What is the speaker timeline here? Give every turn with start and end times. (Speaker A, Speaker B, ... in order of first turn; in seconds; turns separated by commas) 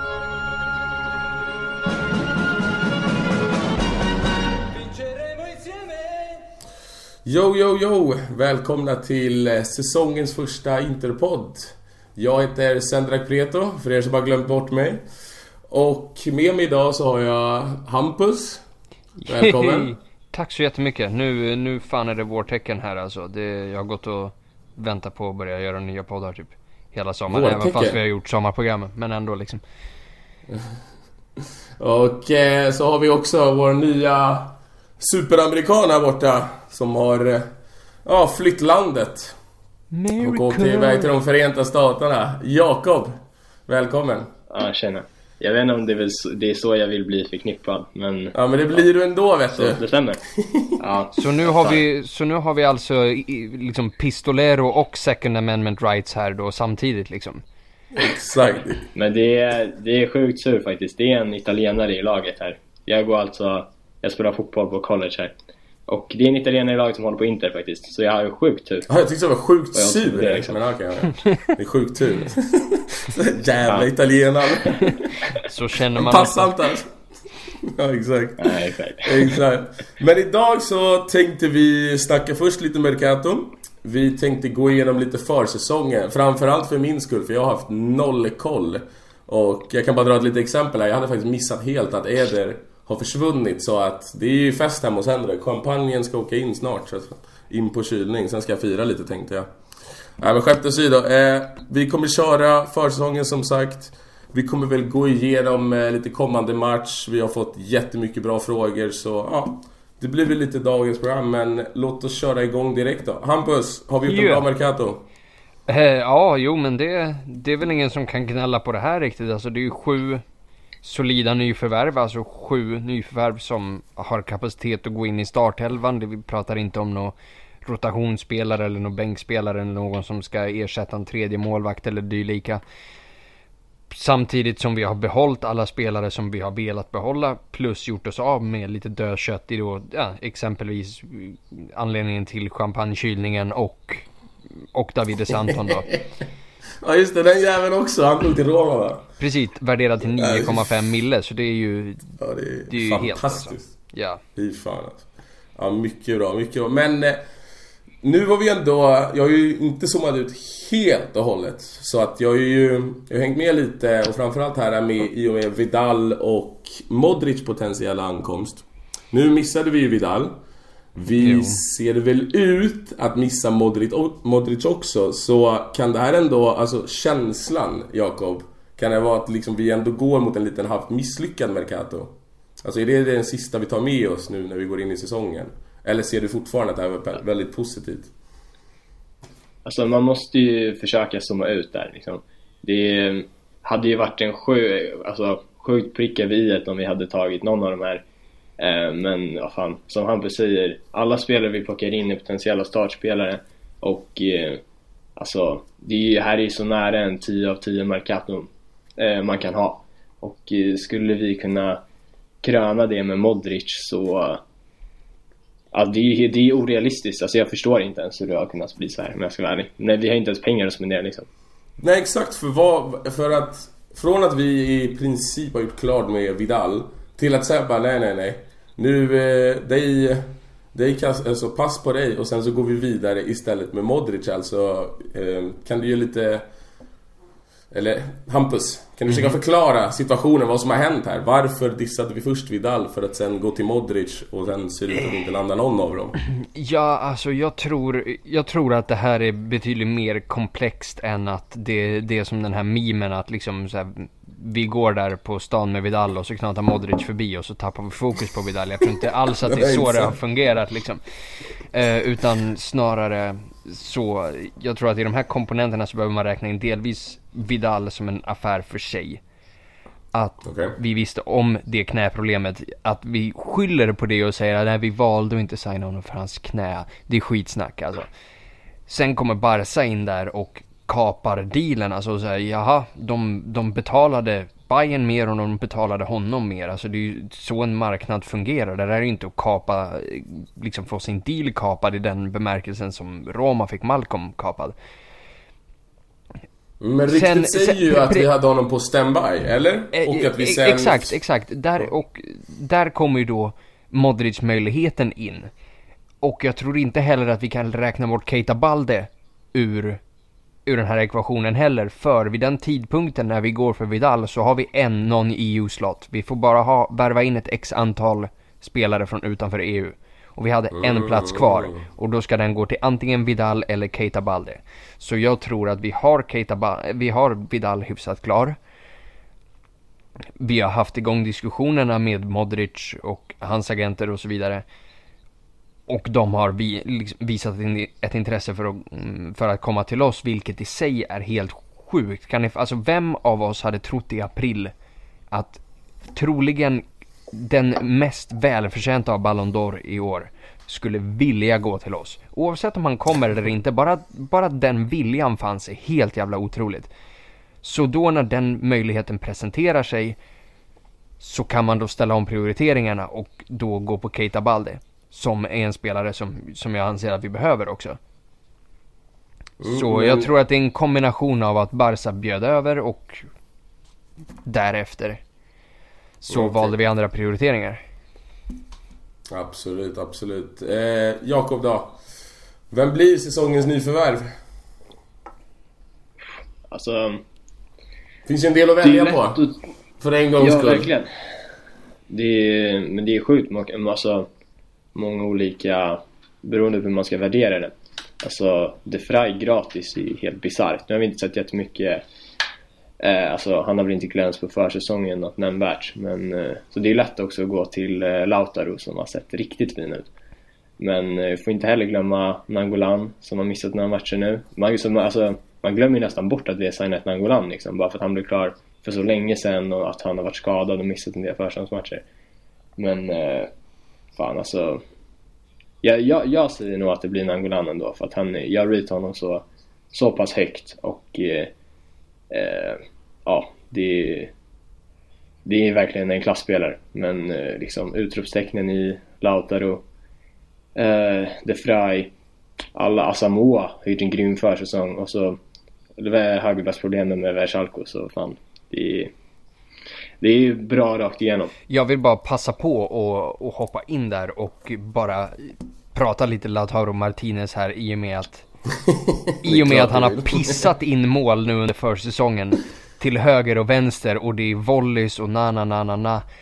Speaker A: 5.3-5.7, Speaker B: 7.2-15.0, Speaker B: 15.7-18.6, Speaker A: 19.2-29.6, Speaker B: 19.3-19.9, Speaker B: 27.3-28.0, Speaker B: 30.5-30.8, Speaker B: 31.8-37.5, Speaker B: 38.0-39.4, Speaker A: 39.9-41.1, Speaker B: 40.2-43.2, Speaker B: 43.7-44.3, Speaker C: 44.5-48.8, Speaker B: 48.3-50.8, Speaker C: 49.5-50.2, Speaker C: 50.8-51.8, Speaker A: 51.1-57.4, Speaker B: 57.9-58.9, Speaker C: 59.0-65.3, Speaker C: 65.9-68.9, Speaker B: 68.9-75.2, Speaker C: 69.7-70.6, Speaker A: 74.8-76.7, Speaker B: 76.0-76.9, Speaker B: 77.6-99.5, Speaker C: 78.4-79.4, Speaker B: 100.2-115.0, Speaker A: 114.1-114.5, Speaker A: 115.7-120.2, Speaker A: 120.8-132.6, Speaker A: 133.9-144.1, Speaker A: 144.7-145.9, Speaker B: 145.5-146.0, Speaker B: 146.8-149.1, Speaker A: 149.2-154.2, Speaker B: 150.2-150.7, Speaker B: 152.2-153.7, Speaker B: 154.3-155.1, Speaker B: 155.6-157.2, Speaker B: 158.0-170.3, Speaker B: 170.9-188.1, Speaker A: 171.2-171.6, Speaker C: 189.6-198.0, Speaker C: 198.6-204.6, Speaker C: 205.2-211.8, Speaker C: 212.4-214.4, Speaker C: 215.7-221.3, Speaker B: 221.8-236.4, Speaker B: 237.7-246.2, Speaker A: 246.4-261.0, Speaker B: 259.4-260.2, Speaker A: 261.7-269.2, Speaker A: 270.1-278.1, Speaker B: 270.4-270.7, Speaker A: 278.9-294.8, Speaker B: 296.8-301.1, Speaker A: 297.1-298.3, Speaker A: 299.9-305.5, Speaker A: 306.2-310.0, Speaker A: 310.7-328.6, Speaker B: 320.7-321.8, Speaker A: 330.4-334.6, Speaker A: 335.9-344.7, Speaker A: 345.3-345.6, Speaker A: 346.1-356.9, Speaker A: 357.6-360.2, Speaker A: 361.2-368.0, Speaker B: 369.6-370.3, Speaker A: 369.7-373.2, Speaker A: 374.4-375.2, Speaker A: 376.2-377.8, Speaker B: 376.3-376.7, Speaker B: 379.3-382.0, Speaker B: 382.7-384.3, Speaker C: 386.7-387.2, Speaker B: 388.3-389.4, Speaker C: 388.8-389.6, Speaker B: 390.0-390.9, Speaker C: 390.4-391.1, Speaker C: 392.1-394.3, Speaker C: 394.9-402.0, Speaker C: 403.0-410.1, Speaker C: 410.8-422.0, Speaker C: 422.8-423.5, Speaker C: 424.2-424.8, Speaker C: 425.8-431.5, Speaker C: 432.3-434.3, Speaker C: 435.5-439.8, Speaker C: 440.8-442.1, Speaker C: 442.8-445.4, Speaker C: 446.0-449.1, Speaker C: 450.2-451.5, Speaker A: 451.7-458.5, Speaker B: 458.8-460.7, Speaker A: 459.4-466.2